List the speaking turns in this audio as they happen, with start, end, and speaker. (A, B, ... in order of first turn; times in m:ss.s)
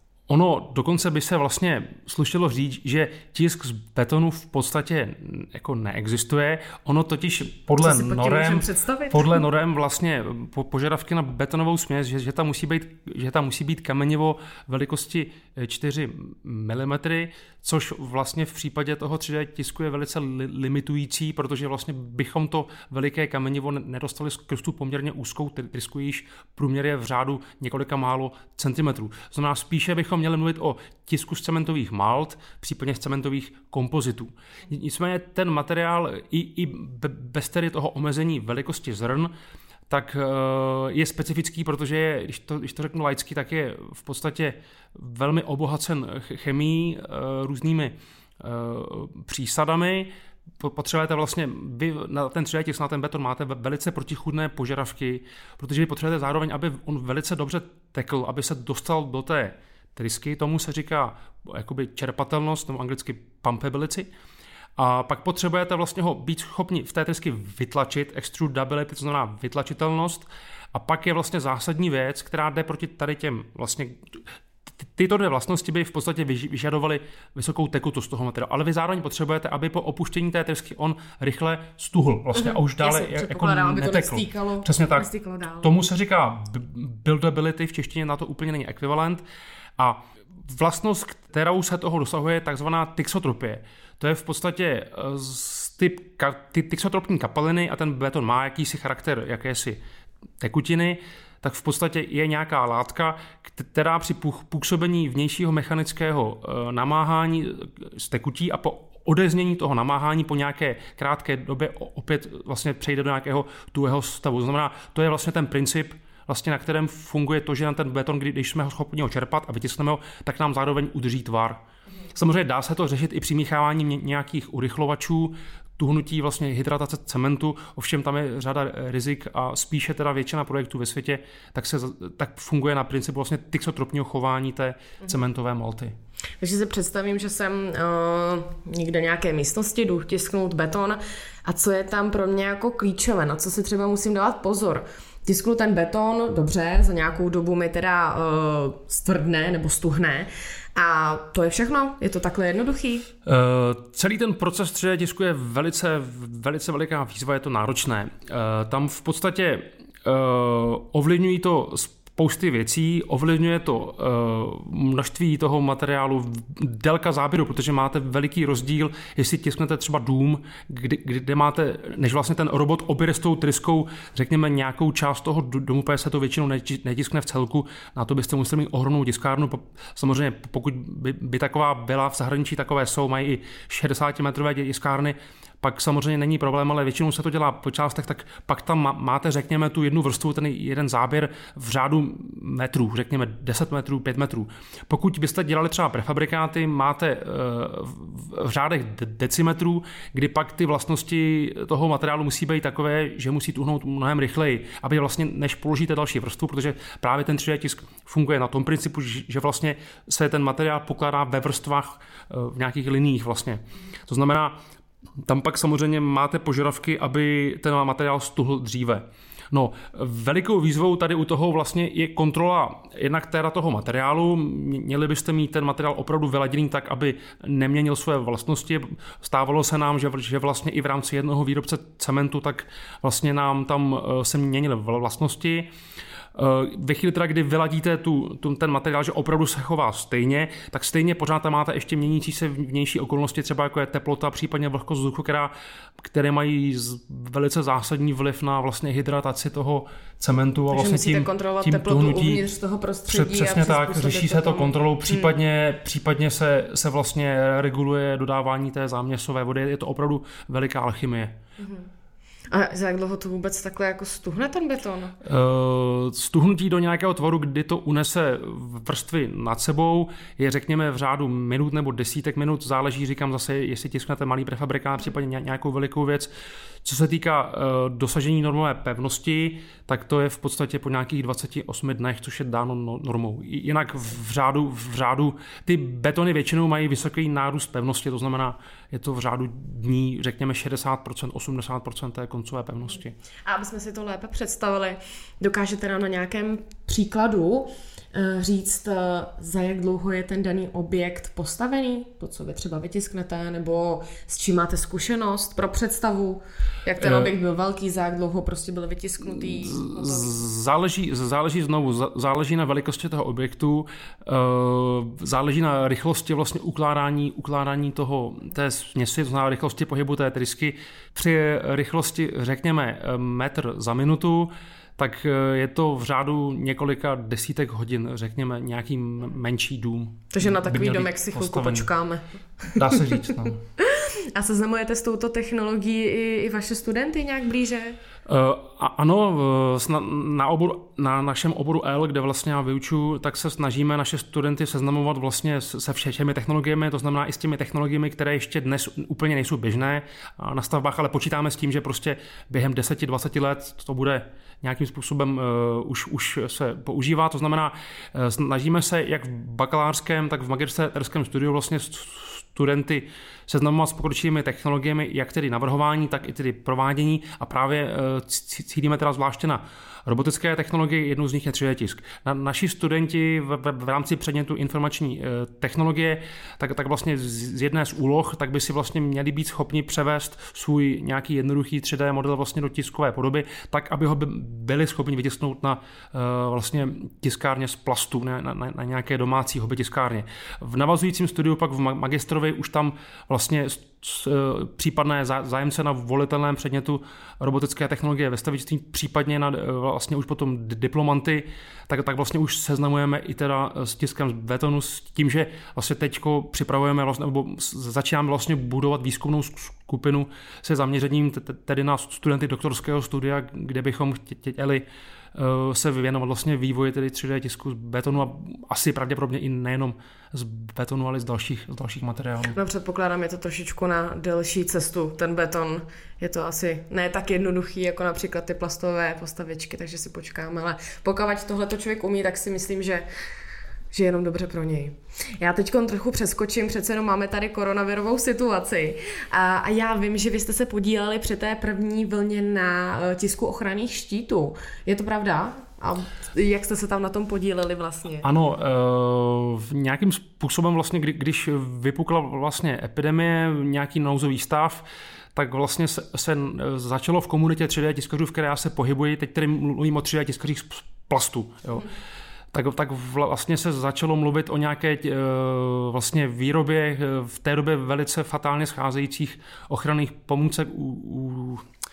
0:00.3-0:39.3 A
0:07.8-0:09.4 B
0:39.9-1:04.1 A
1:04.8-1:14.2 A
1:15.0-1:25.1 A
1:22.4-1:25.7 B
1:25.6-1:29.2 A
1:29.8-1:39.8 A
1:40.4-2:15.9 A
2:16.4-2:33.1 B
2:33.2-3:34.6 A
3:35.2-3:55.7 A
3:56.4-4:12.5 A
4:10.7-4:15.3 B
4:13.1-4:21.3 A
4:21.6-4:21.9 B
4:22.5-4:25.2 B
4:25.2-4:36.3 A
4:36.8-4:53.1 A
4:53.4-5:10.3 B
5:07.0-5:07.3 A
5:09.3-5:31.9 A
5:30.3-5:33.2 B
5:32.8-5:33.6 A
5:33.8-5:38.0 B
5:38.3-7:02.6 A
7:02.5-7:13.0 B
7:13.9-7:28.2 B
7:28.2-7:34.8 A
7:35.4-7:41.9 A
7:42.5-7:51.6 A